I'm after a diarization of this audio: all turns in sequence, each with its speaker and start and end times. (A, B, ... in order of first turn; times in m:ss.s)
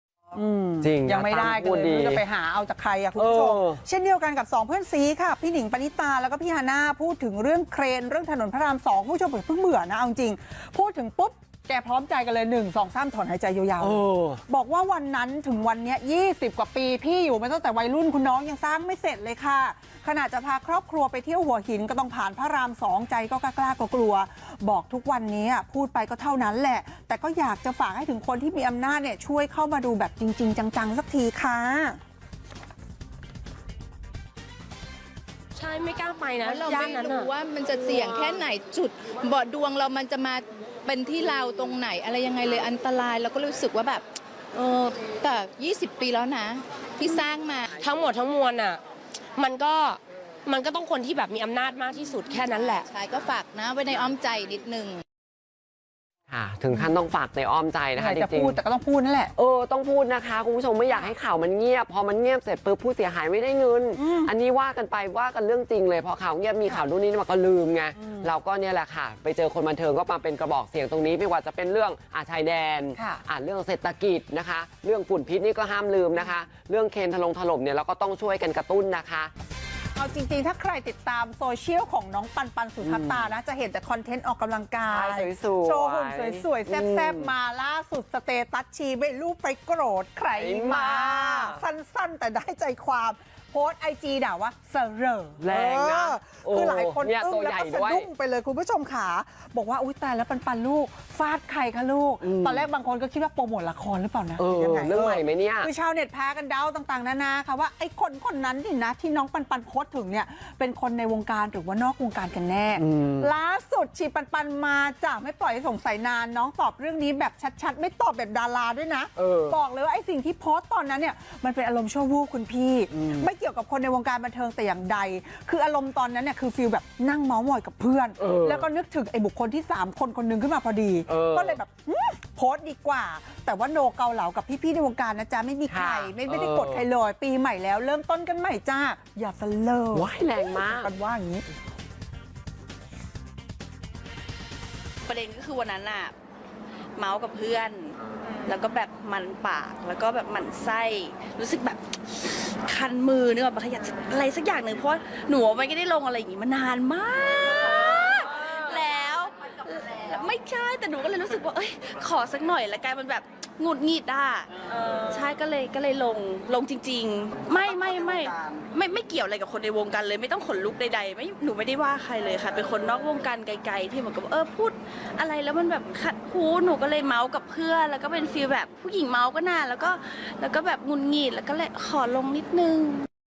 0:00.3-0:32.0 A
0:00.8-0:02.2 B
0:03.1-0:03.8 B
0:13.8-0:14.4 B
0:35.6-0:36.6 C
0:36.4-0:47.8 D
0:47.9-0:48.8 C
0:49.4-0:52.8 C
0:52.8-0:55.0 D
0:56.3-0:58.6 B
0:56.7-0:56.9 A
0:58.0-0:59.3 A
0:59.3-1:19.3 B
1:04.0-1:04.3 A
1:08.0-1:08.3 A
1:13.0-1:13.2 A
1:20.0-2:21.4 A
1:22.8-1:23.4 B
1:24.8-1:27.3 B
1:30.3-1:31.6 B
1:35.4-1:38.1 B
1:42.2-1:42.7 B
1:44.4-1:45.7 B
1:52.8-1:53.3 B
1:59.2-1:59.6 B
2:02.9-2:03.3 B
2:08.2-2:08.7 B
2:11.1-2:11.6 B
2:15.7-2:16.8 B
2:19.9-2:20.9 B
2:25.1-2:26.1 E
2:27.0-3:03.1 E